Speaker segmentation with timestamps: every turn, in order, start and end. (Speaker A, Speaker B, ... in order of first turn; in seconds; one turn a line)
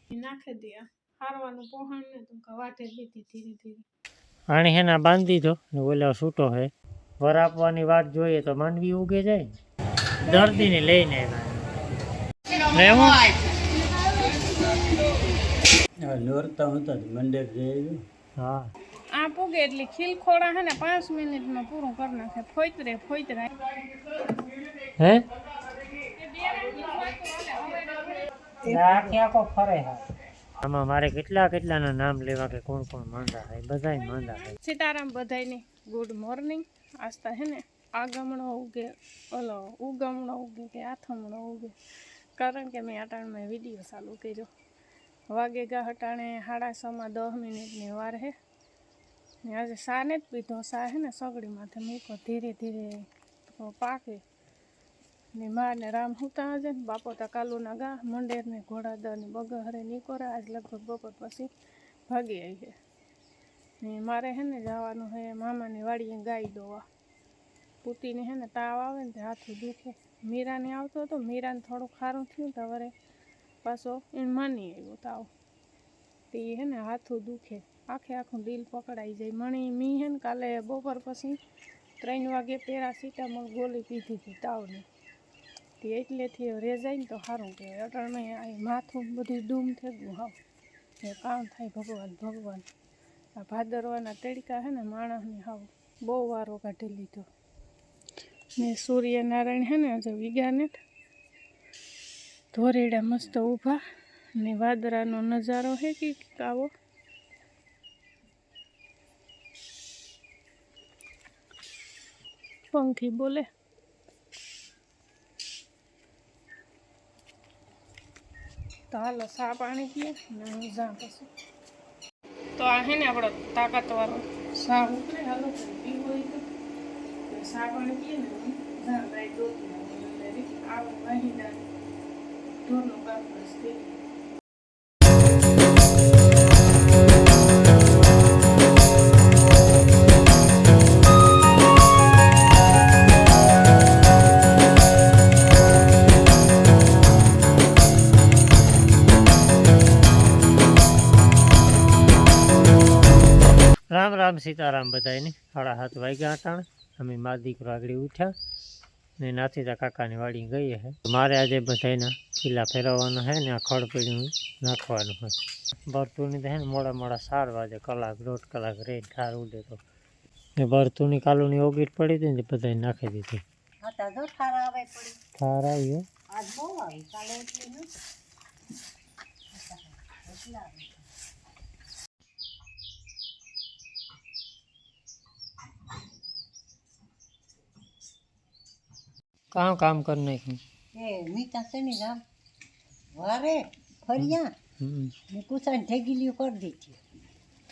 Speaker A: 0.1-3.8
Speaker B: 4.5-9.4
Speaker B: 10.2-11.7
Speaker A: 10.2-10.7
Speaker B: 12.7-13.3
Speaker A: 13.9-14.3
Speaker C: 16.0-18.0
Speaker B: 18.4-18.7
Speaker A: 19.1-23.5
Speaker A: 26.1-28.2
Speaker D: 28.6-29.2
Speaker B: 28.6-30.0
Speaker B: 30.6-34.6
Speaker A: 34.0-41.7
Speaker A: 42.4-44.5
Speaker A: 45.3-48.3
Speaker A: 49.4-54.2
Speaker A: 55.3-61.5
Speaker A: 62.1-62.7
Speaker A: 63.8-66.8
Speaker A: 67.8-72.9
Speaker A: 73.6-75.3
Speaker A: 76.3-81.4
Speaker A: 82.0-84.8
Speaker A: 85.8-90.3
Speaker A: 91.0-92.7
Speaker A: 93.4-97.3
Speaker A: 98.6-100.8
Speaker A: 102.5-103.8
Speaker A: 104.4-106.7
Speaker A: 112.7-113.5
Speaker A: 118.9-121.3
Speaker A: 122.6-126.4
Speaker A: 127.3-131.7
Speaker A: 132.6-134.0
Speaker B: 153.9-158.3
Speaker B: 159.2-165.3
Speaker B: 165.9-169.8
Speaker B: 170.6-173.4
Speaker D: 173.8-175.2
Speaker B: 175.4-176.0
Speaker D: 176.3-177.9
Speaker D: 179.5-181.0
Speaker B: 189.5-190.6
Speaker D: 190.9-192.2
Speaker D: 193.1-194.5
Speaker B: 194.2-195.1
Speaker D: 195.3-197.0